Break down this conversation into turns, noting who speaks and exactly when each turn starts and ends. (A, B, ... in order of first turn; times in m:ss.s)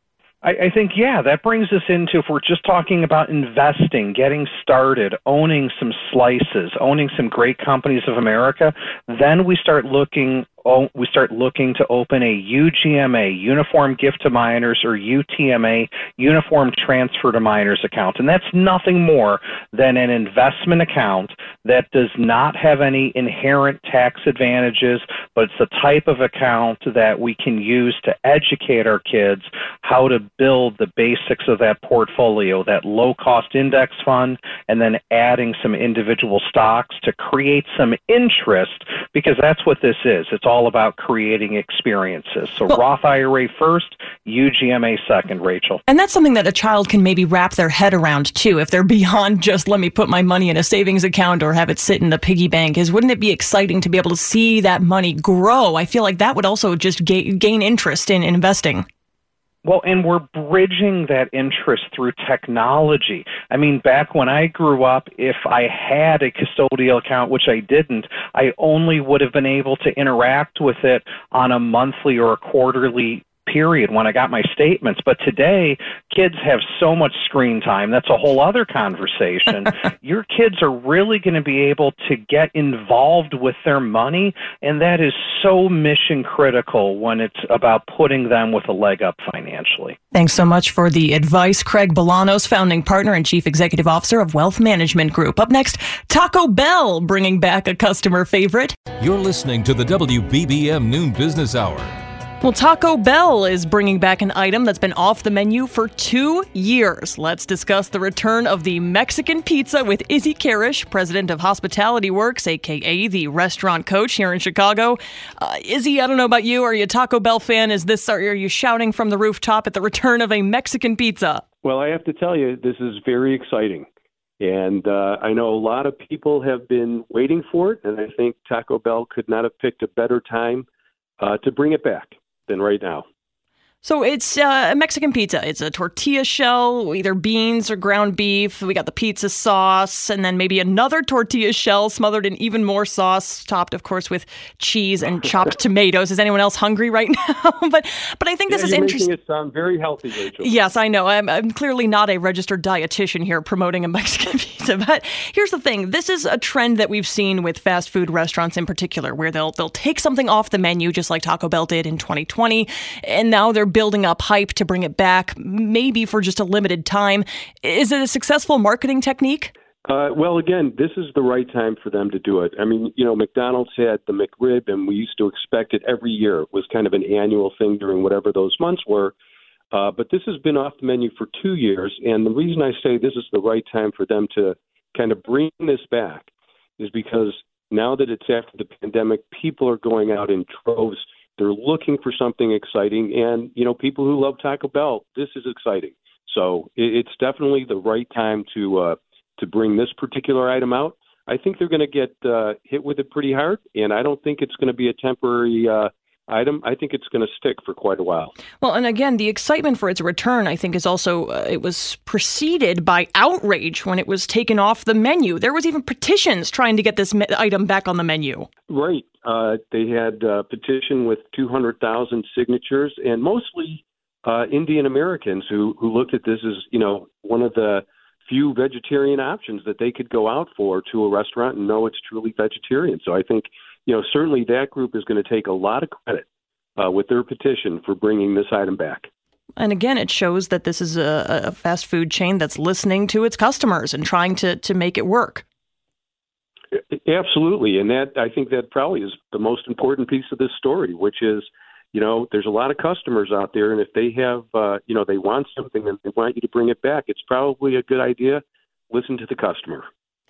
0:00.4-0:45.8 A
0:45.9-0:58.8 B
0:59.6-1:30.0 A
1:30.1-1:38.8 B
1:39.0-1:41.9 C
1:42.4-2:01.4 B
2:01.6-2:03.9 D
2:04.4-2:10.6 D
2:11.2-2:13.0 D
2:13.8-2:29.1 B
2:28.5-2:30.5 D
2:30.4-2:49.5 B
2:49.8-2:59.1 D
2:59.7-3:28.3 D
3:28.6-3:38.5 B
3:38.7-3:56.2 D
3:56.8-3:59.1 D
3:59.6-4:05.4 B
4:06.8-4:19.9 D